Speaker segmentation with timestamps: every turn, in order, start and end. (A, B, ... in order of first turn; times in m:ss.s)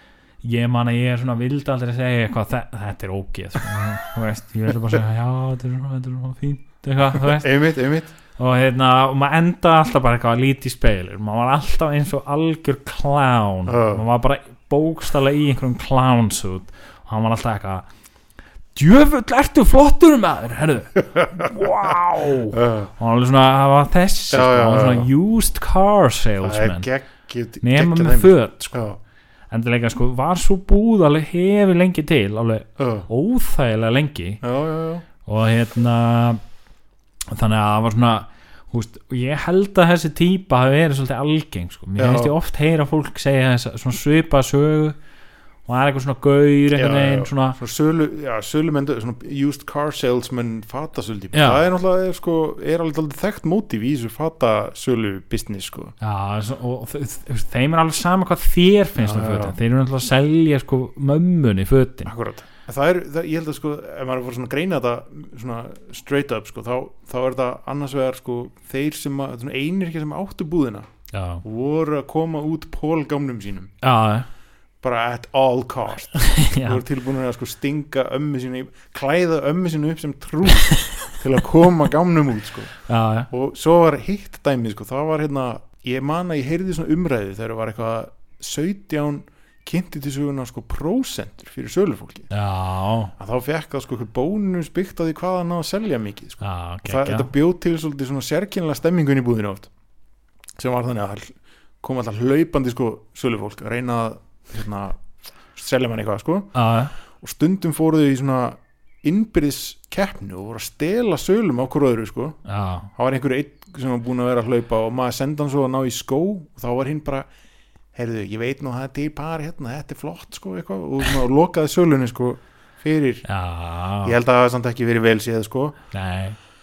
0:00.4-0:07.5 A
0:07.2-0:08.1 B
0:08.4-0:17.8 A
0:13.7-0:14.0 B
0:18.8-0:26.9 A
0:21.2-0:21.5 B
0:22.5-0:22.9 B
0:24.3-0:25.1 B
0:26.4-0:29.0 B
0:27.6-0:28.7 A
0:29.5-0:34.4 A
0:32.8-0:33.1 B
0:34.4-0:35.0 B
0:35.2-0:36.4 A
0:37.3-0:45.0 A
0:42.0-0:42.3 B
0:45.7-0:47.6 A
0:46.7-0:56.0 B
0:51.3-0:51.6 A
0:56.0-1:02.1 A
0:59.0-0:59.6 B
1:02.1-1:10.9 B
1:11.1-1:11.4 A
1:11.4-1:13.7 B
1:13.8-1:14.3 A
1:14.8-1:22.7 B
1:16.2-1:16.8 A
1:22.9-1:23.3 A
1:23.3-1:32.3 B
1:32.3-1:33.1 A
1:33.2-1:39.7 B
1:36.4-1:37.3 A
1:40.6-1:45.0 B
1:45.5-1:46.6 B
1:46.5-1:46.9 A
1:47.1-1:52.4 B
1:52.5-1:52.9 A
1:52.9-1:57.3 B
1:57.9-2:03.3 B
2:03.3-2:04.2 A
2:04.0-2:05.8 B
2:05.9-2:06.4 A